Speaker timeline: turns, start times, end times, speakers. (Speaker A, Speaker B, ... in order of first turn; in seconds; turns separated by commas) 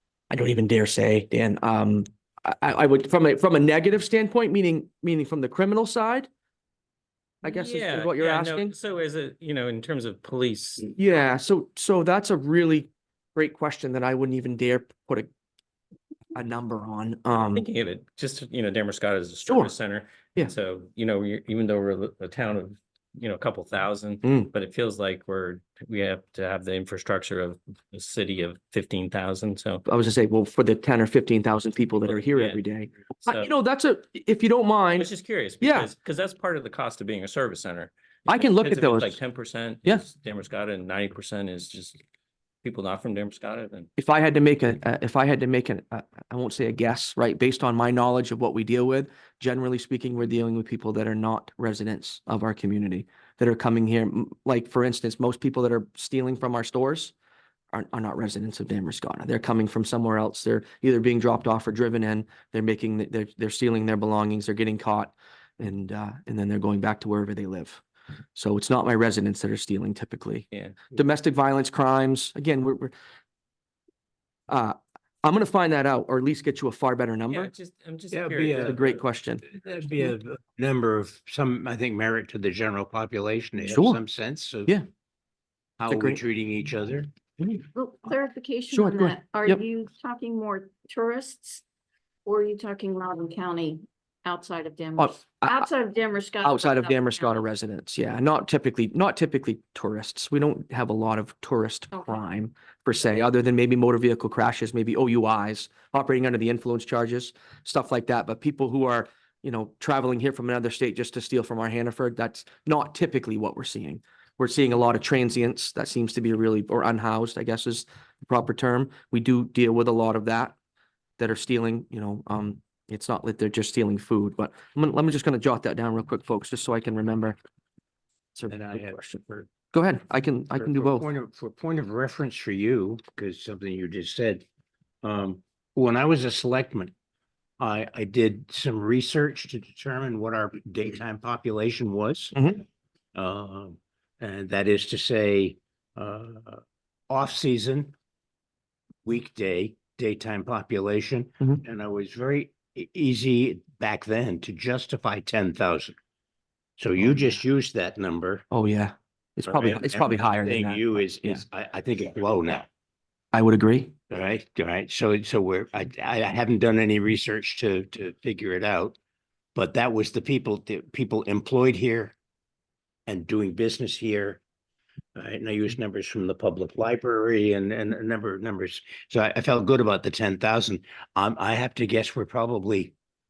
Speaker A: 0.3-6.3, Speaker A: 7.4-8.7, Speaker B: 7.4-10.9, Speaker A: 10.9-15.3, Speaker A: 16.3-17.6, Speaker B: 17.5-29.8, Speaker A: 19.5-19.7, Speaker A: 24.2-24.5, Speaker A: 29.9-35.9, Speaker B: 32.1-32.6, Speaker B: 33.2-33.5, Speaker B: 34.9-42.0, Speaker A: 38.3-39.2, Speaker B: 42.6-43.9, Speaker A: 44.0-57.1, Speaker A: 57.7-67.8, Speaker A: 68.3-72.9, Speaker B: 70.5-70.8, Speaker A: 74.5-77.5, Speaker B: 77.3-79.0, Speaker C: 78.1-78.8, Speaker A: 78.6-79.4, Speaker C: 79.5-84.7, Speaker A: 83.6-84.0, Speaker A: 85.8-86.2, Speaker C: 85.8-87.1, Speaker D: 87.7-91.6, Speaker A: 88.7-89.6, Speaker D: 92.2-97.4, Speaker A: 95.0-95.7, Speaker A: 96.4-120.6, Speaker A: 121.2-127.4, Speaker A: 128.3-131.1, Speaker C: 128.5-129.5, Speaker C: 130.6-134.4, Speaker C: 135.0-136.9, Speaker C: 137.6-142.3, Speaker A: 142.3-142.6, Speaker C: 143.1-147.9, Speaker C: 149.0-155.9, Speaker C: 156.8-158.4, Speaker A: 157.0-157.3, Speaker A: 158.5-161.4, Speaker C: 159.5-162.7, Speaker A: 163.3-163.9, Speaker C: 164.1-169.0, Speaker C: 169.6-172.1, Speaker C: 173.1-174.4, Speaker C: 175.2-182.9